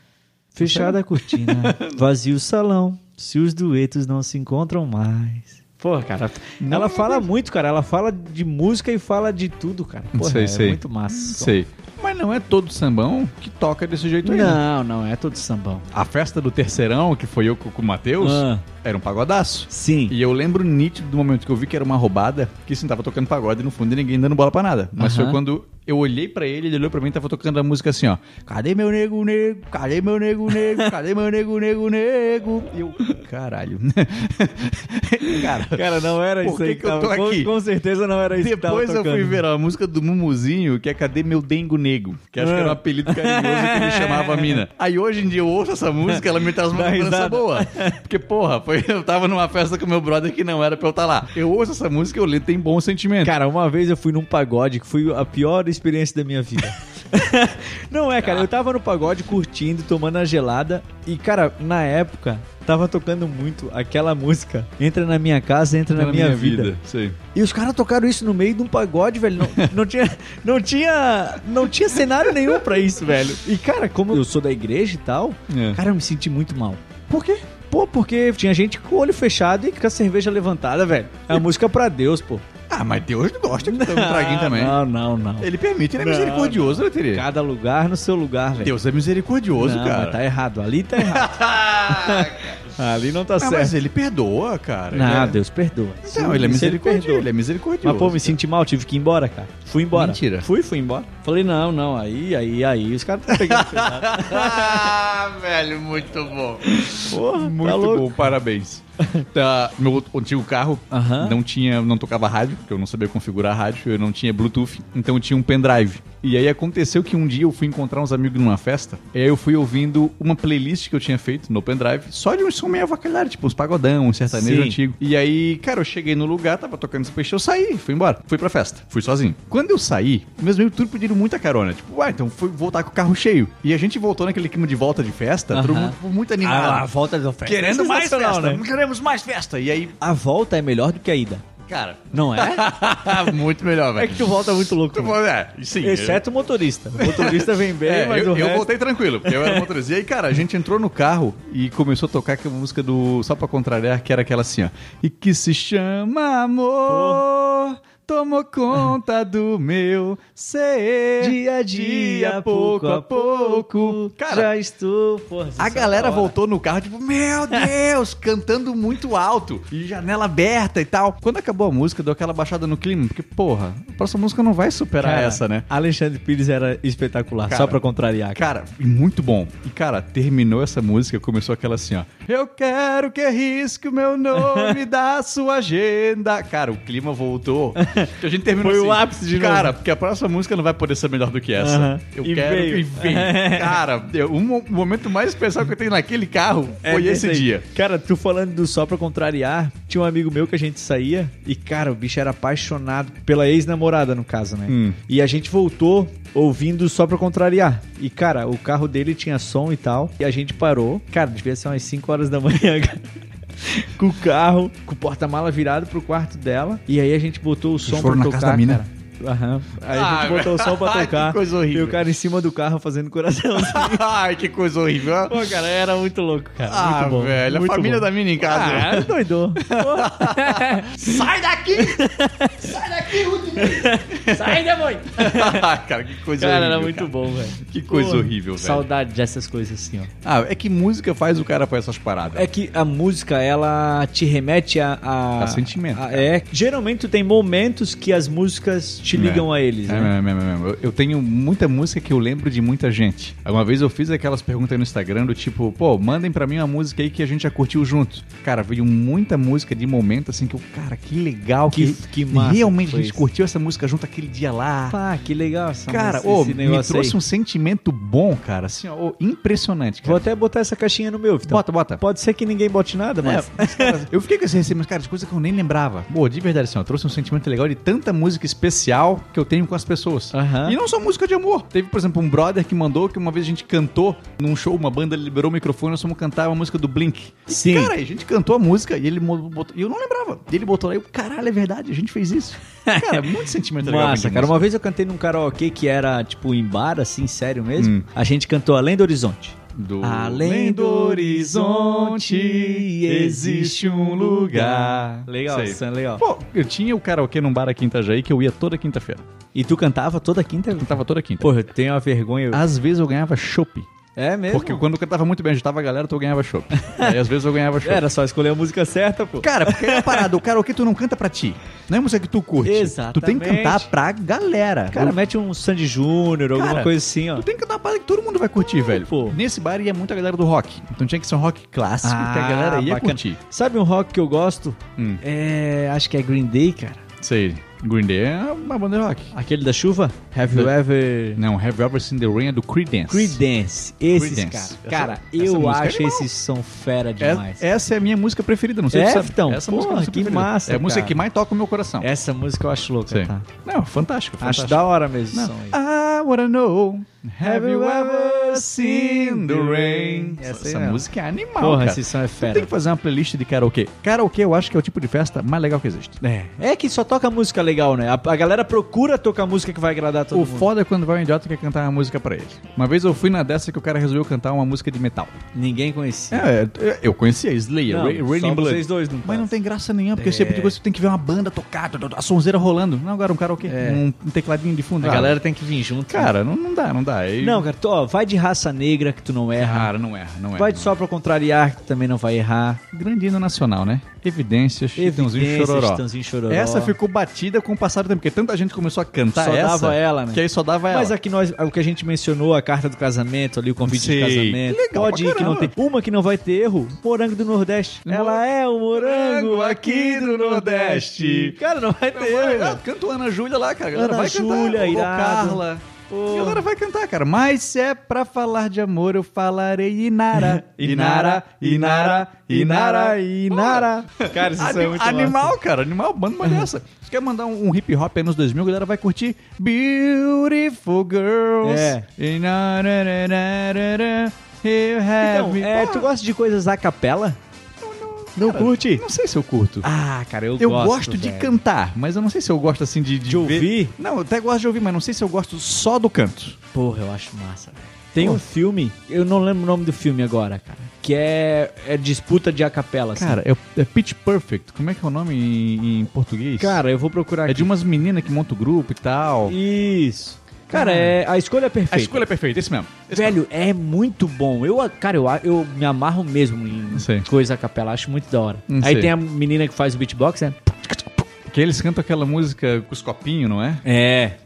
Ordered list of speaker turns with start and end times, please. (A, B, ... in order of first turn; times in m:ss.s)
0:00.5-0:11.5 A
0:00.6-0:02.0 B
0:06.6-0:07.3 B
0:10.1-0:14.6 B
0:14.2-0:15.9 A
0:15.9-0:37.5 B
0:18.2-0:18.6 A
0:19.7-0:20.2 A
0:25.0-0:25.4 A
0:30.5-0:30.9 A
0:35.3-0:39.4 A
0:38.3-0:53.4 B
0:42.4-0:44.6 A
0:46.1-0:48.0 A
0:53.2-1:06.8 A
0:58.2-0:58.5 B
1:05.9-1:07.2 B
1:07.3-1:17.0 A
1:12.2-1:12.6 B
1:15.5-1:15.8 B
1:17.1-1:17.5 B
1:17.6-1:22.4 A
1:22.7-1:24.8 B
1:23.6-1:28.8 A
1:25.4-1:27.3 B
1:28.6-1:30.2 B
1:29.6-1:33.8 A
1:31.0-1:32.6 B
1:33.4-1:35.4 B
1:34.9-1:37.3 A
1:36.0-1:38.4 B
1:37.8-1:45.0 A
1:39.9-1:40.5 B
1:43.3-2:16.9 B
1:46.7-1:48.1 A
1:49.0-1:49.3 A
1:50.9-1:51.4 A
2:04.3-2:04.8 A
2:15.5-2:18.6 A
2:17.4-2:20.0 B
2:20.0-2:21.4 A
2:21.6-2:26.2 B
2:22.1-2:22.7 A
2:24.0-2:25.2 A
2:25.8-2:29.7 A
2:27.0-2:44.5 B
2:36.9-2:37.2 A
2:41.2-2:46.4 A
2:45.6-2:55.7 B
2:55.0-2:58.4 A
2:57.5-2:57.8 B
2:58.3-3:17.7 B
3:04.3-3:04.8 A
3:07.8-3:09.8 A
3:11.6-3:13.8 A
3:16.8-3:33.1 A
3:24.7-3:25.0 B
3:33.6-3:44.0 A
3:37.8-3:38.8 B
3:39.8-3:42.0 B
3:43.6-3:45.5 B
3:45.2-3:55.7 A
3:46.6-3:58.9 B
3:56.4-4:00.1 A
4:00.2-4:02.5 B
4:02.3-4:10.1 A
4:05.4-4:06.3 B
4:09.1-4:25.0 B
4:21.7-4:23.2 A
4:24.9-4:27.2 A
4:25.9-4:30.3 B
4:30.0-4:34.0 A
4:31.5-4:32.0 B
4:33.2-4:54.7 B
4:40.3-4:40.8 A
4:47.5-4:47.9 A
4:52.8-4:53.3 A
4:53.8-5:06.2 A
4:57.8-4:58.1 B
4:59.7-5:09.3 B
5:09.6-5:12.6 A
5:10.7-5:11.5 B
5:12.5-5:13.9 B
5:14.2-5:14.8 A
5:14.5-5:18.0 B
5:16.7-5:17.2 A
5:17.8-5:20.3 A
5:19.4-5:25.2 B
5:22.6-5:23.9 A
5:24.9-5:27.5 A
5:26.6-5:33.4 B
5:28.8-5:29.4 A
5:32.0-5:37.0 A
5:35.0-5:35.2 B
5:37.2-5:39.3 B
5:39.3-5:41.4 A
5:41.4-5:43.4 B
5:43.1-5:47.7 A
5:44.1-5:46.3 B
5:47.2-5:52.1 B
5:48.9-5:51.2 A
5:52.0-5:53.5 A
5:53.1-6:06.2 B
5:54.4-5:55.8 A
5:57.4-6:01.1 A
6:01.6-6:02.7 A
6:06.2-6:10.7 A
6:10.3-6:15.4 B
6:15.6-6:16.5 A
6:16.3-6:25.4 B
6:17.9-6:19.5 A
6:20.2-6:20.8 A
6:23.6-6:24.0 A
6:25.0-6:26.3 A
6:26.1-6:27.7 B
6:27.4-6:29.9 A
6:29.5-6:31.0 B
6:30.6-6:32.8 A
6:32.9-6:41.2 B
6:35.0-6:37.0 A
6:39.3-6:52.8 A
6:43.8-6:45.7 B
6:48.0-6:51.6 B
6:52.1-7:16.1 B
6:53.9-6:56.7 A
7:00.4-7:05.6 A
7:11.6-7:12.1 A
7:15.2-7:17.4 A
7:17.8-7:19.9 B
7:18.4-7:19.0 A
7:19.8-7:21.6 A
7:20.6-7:26.6 B
7:23.2-7:24.0 A
7:26.7-7:33.4 A
7:28.2-7:28.4 B
7:33.2-7:36.8 B
7:36.6-7:37.7 A
7:37.5-7:39.6 B
7:39.5-7:42.3 A
7:40.7-7:41.2 B
7:41.9-7:43.4 B
7:43.1-7:50.8 A
7:46.9-7:47.3 B
7:48.7-7:49.1 B
7:51.5-7:53.8 B
7:53.8-7:54.4 A